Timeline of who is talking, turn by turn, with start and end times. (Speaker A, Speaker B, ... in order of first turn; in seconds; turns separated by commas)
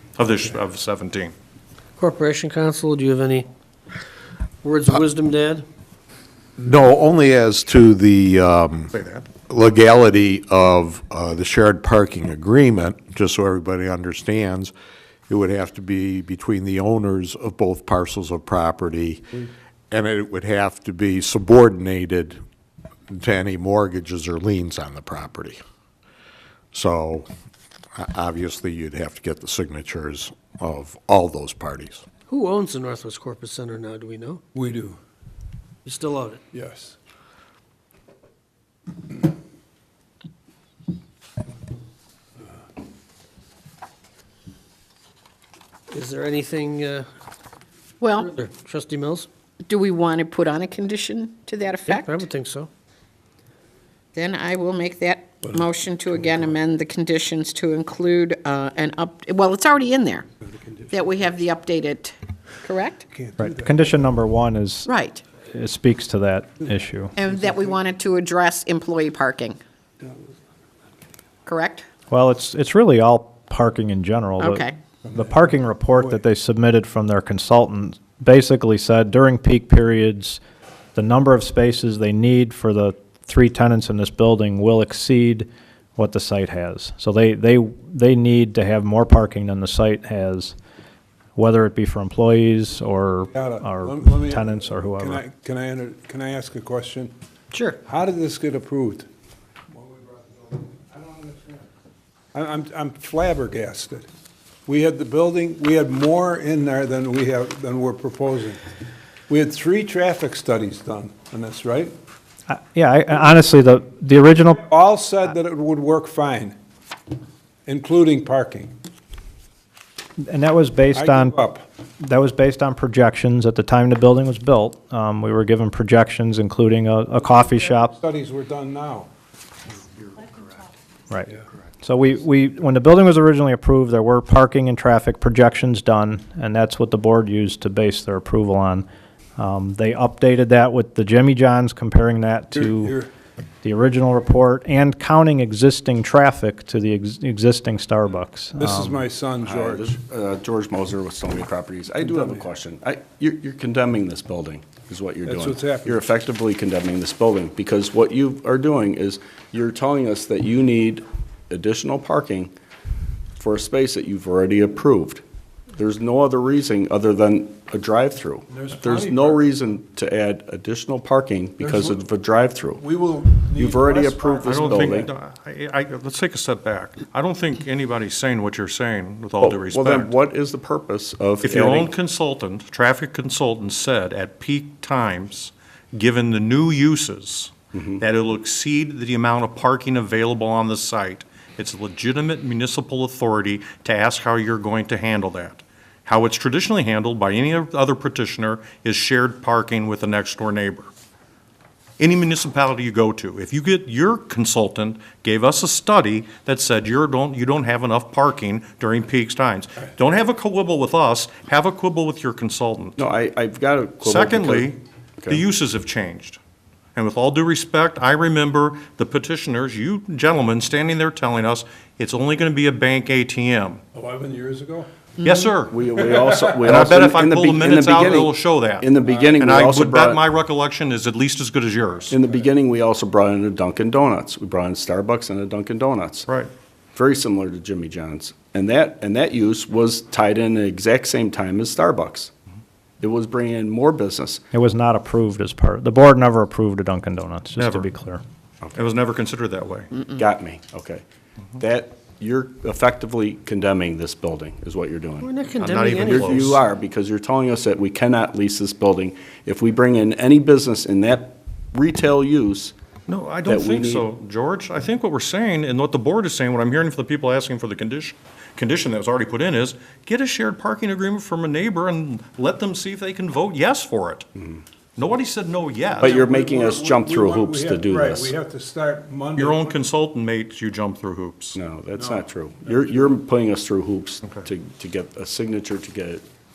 Speaker A: 0.2-1.3, Speaker B: 2.0-3.5, Speaker B: 4.6-5.7, Speaker C: 6.6-8.9, Speaker A: 8.9-9.2, Speaker C: 9.4-14.7, Speaker C: 15.3-22.4, Speaker C: 23.1-25.6, Speaker C: 26.7-27.3, Speaker C: 27.9-32.0, Speaker B: 32.3-34.4, Speaker D: 34.5-35.0, Speaker B: 35.9-36.4, Speaker D: 36.5-37.0, Speaker B: 45.9-47.1, Speaker E: 48.0-48.3, Speaker B: 48.2-49.3, Speaker E: 49.7-52.3, Speaker B: 51.9-52.7, Speaker E: 54.1-60.3, Speaker D: 60.6-61.0, Speaker E: 60.9-63.0, Speaker D: 63.1-64.1, Speaker F: 63.4-67.2, Speaker E: 64.9-65.2, Speaker E: 67.2-69.6, Speaker E: 71.5-71.9, Speaker F: 72.1-80.4, Speaker E: 74.4-74.8, Speaker D: 75.1-75.5, Speaker F: 81.0-90.6, Speaker F: 91.4-95.2, Speaker D: 93.3-94.5, Speaker D: 95.0-97.1, Speaker B: 97.5-97.8, Speaker D: 97.8-99.1, Speaker D: 99.8-101.6, Speaker D: 102.3-104.0, Speaker D: 104.7-108.6, Speaker D: 109.3-111.9, Speaker F: 112.5-114.7, Speaker D: 114.7-116.6, Speaker D: 117.7-118.7, Speaker F: 120.2-121.4, Speaker D: 121.0-121.7, Speaker F: 122.0-127.9, Speaker D: 127.4-129.1, Speaker F: 131.1-138.9, Speaker F: 139.4-143.0, Speaker D: 142.7-143.1, Speaker F: 143.6-149.0, Speaker D: 148.6-149.9, Speaker G: 149.4-162.5, Speaker D: 152.0-152.5, Speaker D: 155.2-156.1, Speaker G: 163.4-165.2, Speaker G: 165.8-172.8, Speaker D: 168.5-169.6, Speaker D: 171.6-172.0, Speaker D: 172.8-175.1, Speaker G: 173.5-175.1, Speaker A: 174.5-180.2, Speaker G: 179.4-181.9, Speaker A: 181.4-200.9, Speaker G: 187.7-188.0, Speaker A: 202.0-213.0, Speaker G: 213.0-215.4, Speaker A: 214.0-216.4, Speaker A: 216.9-223.8, Speaker D: 223.9-224.9, Speaker A: 225.2-225.8, Speaker G: 225.7-230.2, Speaker D: 225.9-226.5, Speaker A: 226.6-232.2, Speaker D: 229.0-229.3, Speaker G: 232.1-236.3, Speaker G: 236.9-242.3, Speaker G: 243.0-244.4, Speaker F: 244.5-248.2, Speaker A: 247.6-247.9, Speaker A: 248.7-249.9, Speaker G: 250.1-251.0, Speaker G: 251.6-255.3, Speaker B: 255.2-256.4, Speaker A: 255.6-256.6, Speaker G: 255.9-262.7, Speaker A: 263.1-274.3, Speaker G: 263.5-264.1, Speaker A: 275.0-276.2, Speaker D: 276.0-279.9, Speaker G: 276.0-278.4, Speaker A: 279.4-281.6, Speaker G: 281.6-286.2, Speaker D: 281.9-283.1